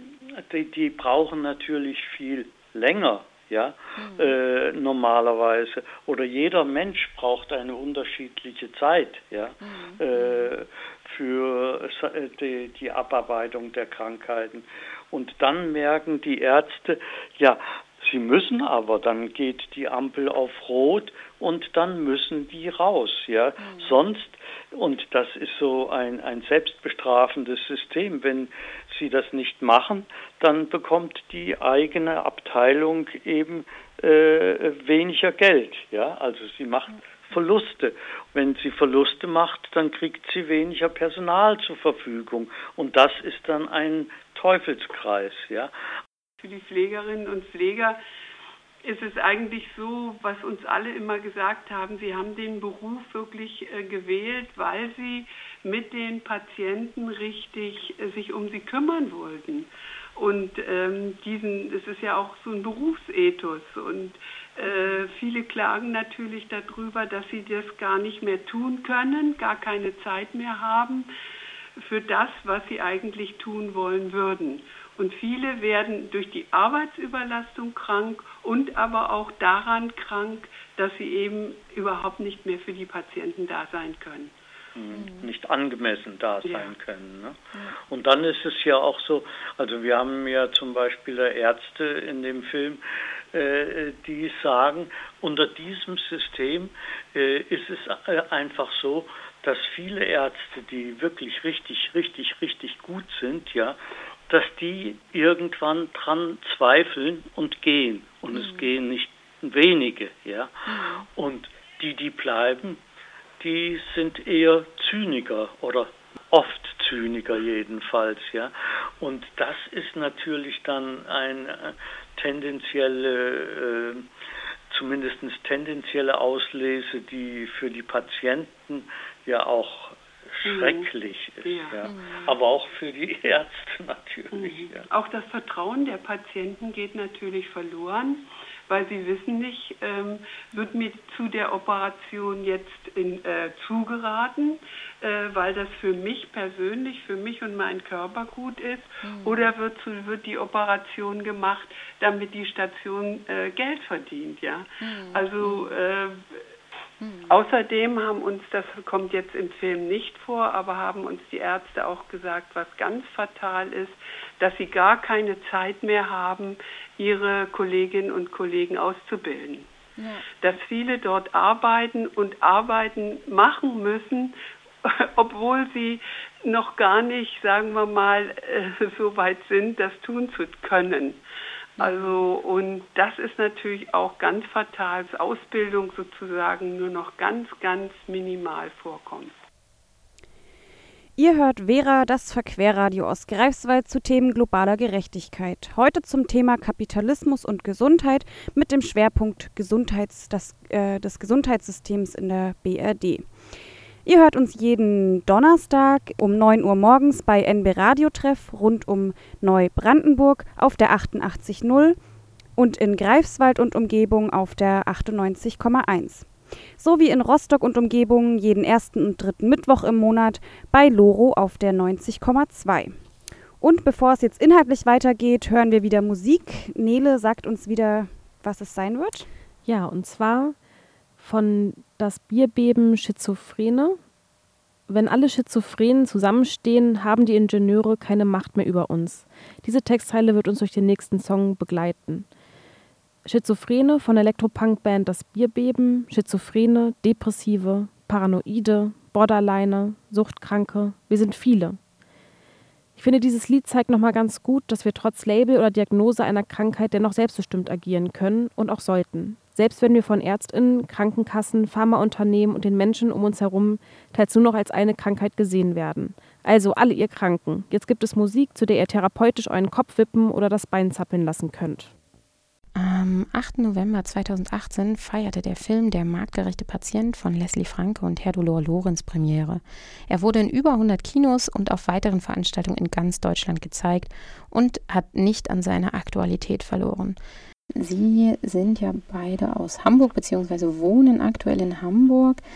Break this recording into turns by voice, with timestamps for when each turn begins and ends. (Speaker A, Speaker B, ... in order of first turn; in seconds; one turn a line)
Speaker A: 0.3-45.7
Speaker B: 4.0-4.3
Speaker B: 9.6-10.5
Speaker B: 23.6-24.0
Speaker C: 46.4-48.0
Speaker C: 48.8-71.1
Speaker C: 71.8-84.3
Speaker A: 84.8-87.4
Speaker B: 84.9-85.3
Speaker C: 86.5-86.7
Speaker A: 87.9-92.8
Speaker A: 93.3-112.8
Speaker B: 108.3-108.7
Speaker B: 110.7-111.1
Speaker A: 113.4-124.1
Speaker A: 124.7-134.9
Speaker C: 130.4-130.9
Speaker C: 131.4-131.9
Speaker B: 131.8-132.3
Speaker C: 134.3-156.4
Speaker B: 149.0-149.5
Speaker B: 154.8-155.8
Speaker B: 157.0-157.4
Speaker C: 157.3-169.7
Speaker B: 170.0-170.2
Speaker C: 170.4-181.2
Speaker C: 181.8-189.3
Speaker B: 181.8-182.2
Speaker D: 191.2-203.3
Speaker D: 204.1-212.0
Speaker D: 212.6-222.9
Speaker D: 223.6-229.3
Speaker E: 229.7-230.6
Speaker E: 231.2-234.0
Speaker E: 234.9-242.3
Speaker E: 243.2-251.8
Speaker E: 253.0-271.9
Speaker B: 272.8-287.2
Speaker B: 287.8-292.4